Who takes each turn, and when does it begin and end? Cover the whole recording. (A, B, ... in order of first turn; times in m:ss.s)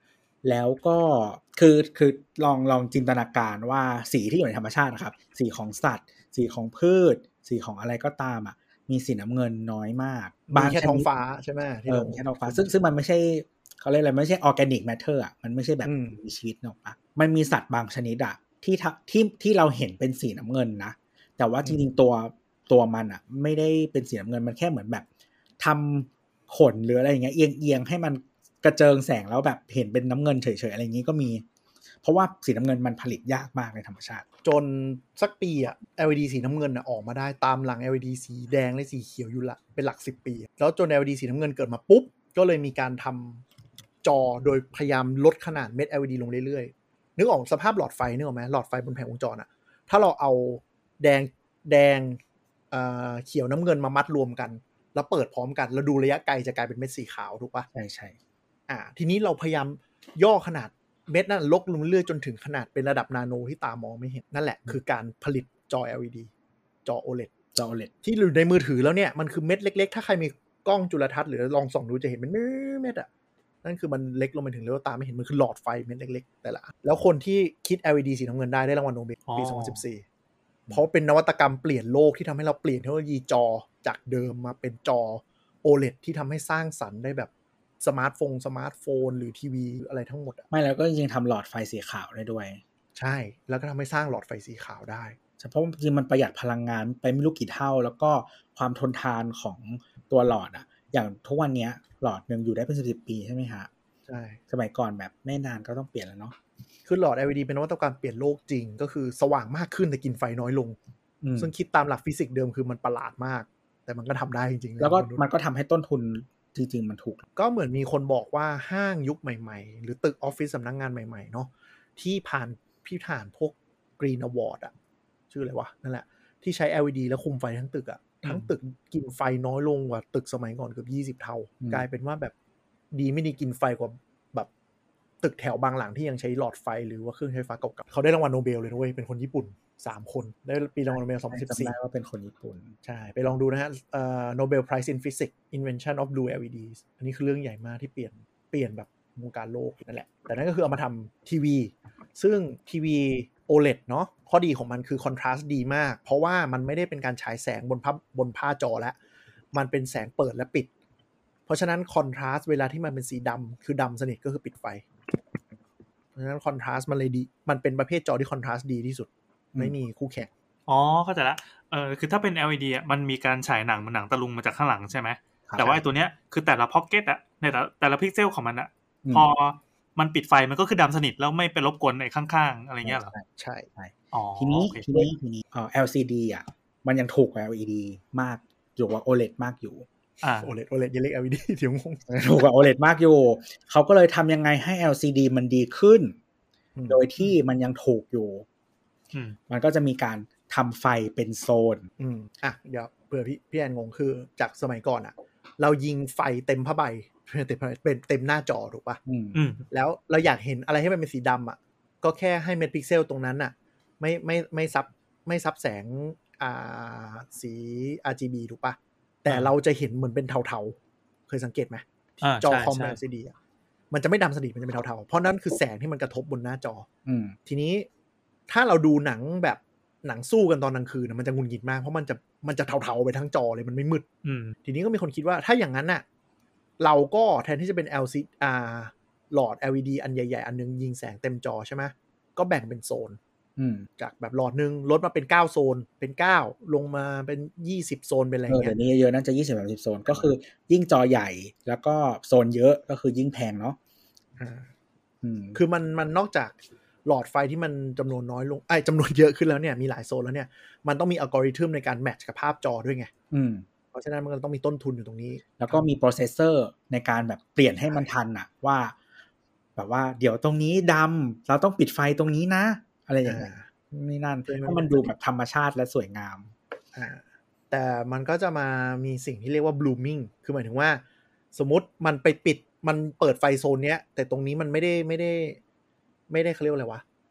0:00.4-0:11.1 A
0:10.5-0:12.7 B
0:11.9-0:25.0 A
0:15.8-0:16.2 B
0:25.6-0:31.4 A
0:32.0-0:34.2 A
0:34.4-0:43.4 B
0:44.0-0:52.2 B
0:52.7-0:57.7 B
0:57.7-0:58.2 A
0:58.7-1:06.3 B
1:06.8-1:07.3 B
1:07.6-1:07.9 A
1:08.0-1:13.1 B
1:13.6-1:20.0 B
1:19.3-1:19.8 C
1:20.7-1:30.4 B
1:30.5-1:32.6 A
1:33.0-1:35.2 B
1:35.4-1:43.7 A
1:44.1-1:44.4 B
1:44.5-1:46.4 A
1:46.9-1:50.8 B
1:51.2-1:51.5 A
1:51.4-1:55.2 B
1:54.8-1:57.2 A
1:57.4-2:04.7 B
2:05.3-2:12.3 B
2:12.9-2:14.5 B
2:15.2-2:21.8 B
2:20.9-2:22.8 A
2:22.8-2:39.0 B
2:39.5-2:40.7 B
2:41.5-2:44.9 B
2:46.2-2:50.3 B
2:50.7-3:03.1 C
2:55.5-2:55.8 A
3:02.8-3:03.2 A
3:03.4-3:03.7 B
3:03.8-3:09.9 A
3:04.1-3:05.1 C
3:10.2-3:10.5 C
3:10.4-3:12.0 B
3:12.1-3:16.2 A
3:16.8-3:17.1 B
3:16.9-3:18.5 A
3:19.5-3:21.9 A
3:22.0-3:29.0 B
3:29.1-3:29.4 A
3:29.3-3:29.6 C
3:29.7-3:40.8 B
3:41.3-3:43.4 B
3:42.2-3:43.0 C
3:43.9-3:46.9 B
3:47.1-3:47.4 A
3:47.5-3:47.9 B
3:48.5-3:54.1 B
3:54.2-3:54.6 C
3:54.6-3:56.0 B
3:56.8-4:03.2 B
4:03.6-4:03.9 A
4:04.0-4:08.8 B
4:08.5-4:13.8 A
4:14.4-4:14.7 B
4:15.2-4:15.6 A
4:15.5-4:23.1 B
4:23.3-4:23.6 A
4:23.9-4:25.9 B
4:25.6-4:29.0 A
4:29.8-4:36.5 A
4:33.2-4:33.7 B
4:34.5-4:35.1 B
4:37.0-4:41.0 B
4:41.5-4:45.6 B
4:46.3-4:47.0 B